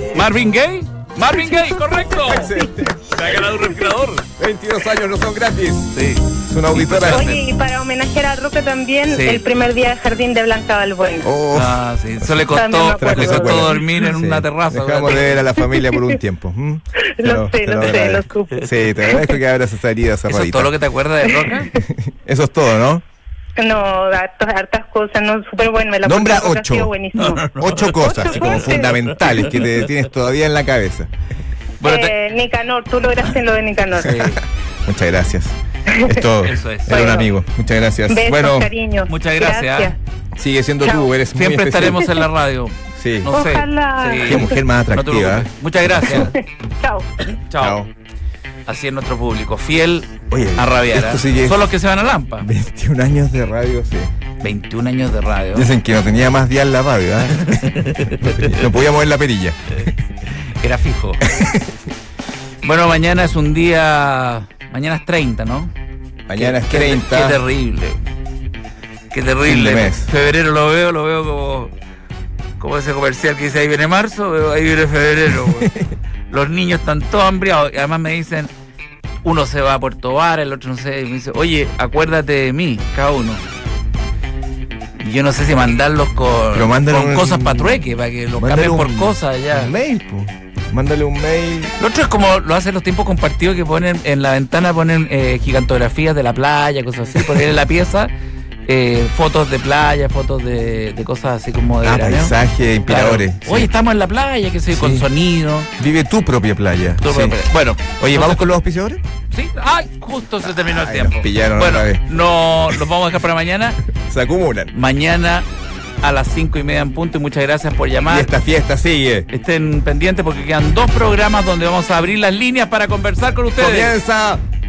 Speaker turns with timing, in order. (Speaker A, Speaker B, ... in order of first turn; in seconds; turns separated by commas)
Speaker A: 0.1-2.5, Speaker B: 1.4-2.7, Speaker C: 2.2-3.7, Speaker A: 3.1-4.3, Speaker C: 4.2-7.4, Speaker A: 5.9-7.4, Speaker B: 7.1-11.3, Speaker A: 9.1-9.4, Speaker C: 11.2-12.3, Speaker A: 11.5-15.4, Speaker B: 12.5-13.8, Speaker C: 13.0-20.7, Speaker B: 15.7-16.0, Speaker B: 17.1-19.4, Speaker A: 20.3-21.8, Speaker C: 21.8-23.0, Speaker B: 23.6-27.5, Speaker C: 26.0-26.9, Speaker A: 27.1-29.9, Speaker C: 27.6-31.1, Speaker B: 28.0-29.2, Speaker A: 31.8-32.1, Speaker B: 31.8-34.3, Speaker A: 34.0-34.4, Speaker C: 34.1-38.7, Speaker B: 35.9-36.2, Speaker A: 36.4-37.1, Speaker B: 36.9-37.3, Speaker B: 38.1-40.0, Speaker A: 39.1-39.9, Speaker C: 40.4-42.1, Speaker B: 40.8-41.1, Speaker A: 41.4-46.3, Speaker C: 43.0-43.3, Speaker B: 43.3-44.6, Speaker C: 44.2-46.4, Speaker B: 46.1-47.1, Speaker A: 47.5-47.8, Speaker C: 47.6-47.9, Speaker A: 48.7-52.5, Speaker C: 50.3-51.6, Speaker C: 52.4-54.1, Speaker A: 54.4-55.7, Speaker C: 55.5-59.9, Speaker A: 57.4-58.6, Speaker A: 60.4-61.2, Speaker C: 61.2-61.7, Speaker A: 62.6-65.7, Speaker C: 66.3-67.4, Speaker A: 66.3-68.0, Speaker A: 69.1-71.7, Speaker C: 69.5-70.1, Speaker A: 72.6-75.7, Speaker C: 75.6-75.9, Speaker A: 76.3-78.5, Speaker A: 79.2-83.5, Speaker A: 85.0-89.8, Speaker C: 86.5-87.8, Speaker C: 88.4-91.8, Speaker A: 91.8-98.1, Speaker A: 98.7-102.3, Speaker C: 101.8-103.7, Speaker A: 102.9-105.7, Speaker C: 104.7-105.1, Speaker C: 105.8-107.4, Speaker A: 107.0-108.5, Speaker C: 108.0-109.0, Speaker A: 109.3-113.8, Speaker C: 110.5-112.0, Speaker C: 114.0-114.7, Speaker A: 114.7-115.5, Speaker A: 116.0-118.3, Speaker C: 118.1-119.3, Speaker A: 119.3-124.0, Speaker C: 123.6-124.4